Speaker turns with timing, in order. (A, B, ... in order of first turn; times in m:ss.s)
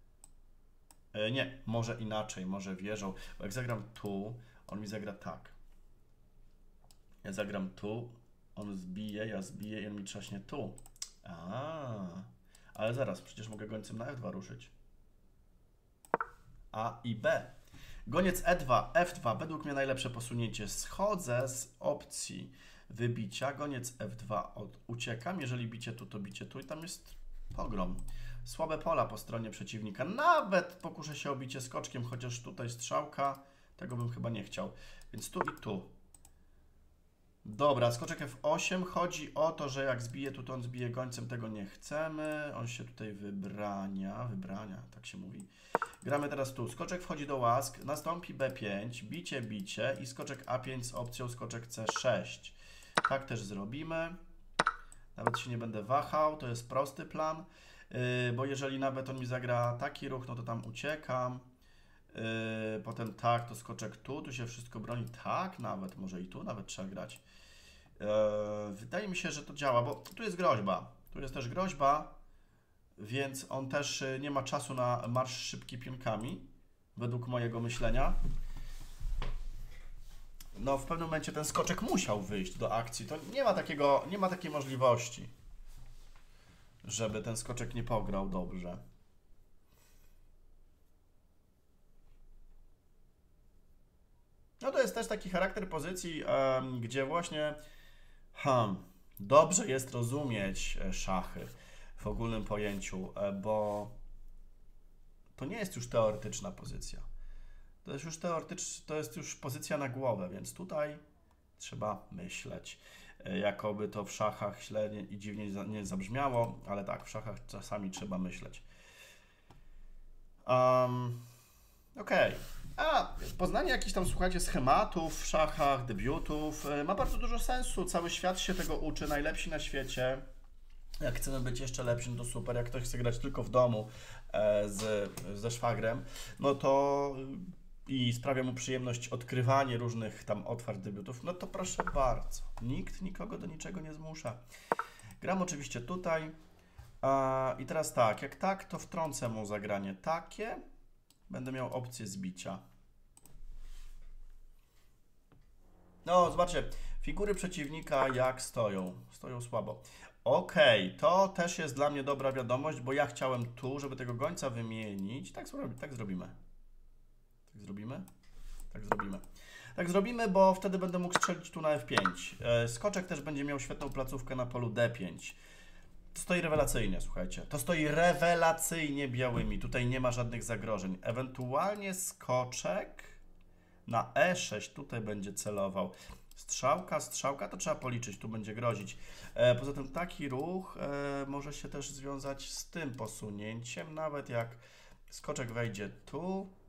0:01.1-0:05.6 A
0:07.2-0:14.7 A
0:16.7-0:17.5 A
0:18.1-0:35.9 A
0:37.4-0:45.5 A
0:46.0-0:54.2 A
0:55.2-1:01.4 A
1:02.1-1:07.2 A
1:08.0-1:12.2 A
1:13.0-1:18.2 A
1:20.6-1:25.3 A
1:26.8-1:28.8 A
1:34.6-1:37.6 A
1:38.3-1:44.0 A
1:45.4-1:47.0 A
1:47.8-1:51.0 A
1:51.6-1:58.6 A
2:00.5-2:01.2 A
2:02.0-2:10.2 A
2:11.0-2:24.4 A
2:25.2-2:26.4 A
2:27.0-2:30.6 A
2:31.3-2:32.6 A
2:36.0-2:46.4 A
2:47.5-2:48.1 A
2:48.7-2:49.2 A
2:49.8-2:55.4 A
2:56.1-3:03.2 A
3:03.9-3:16.5 A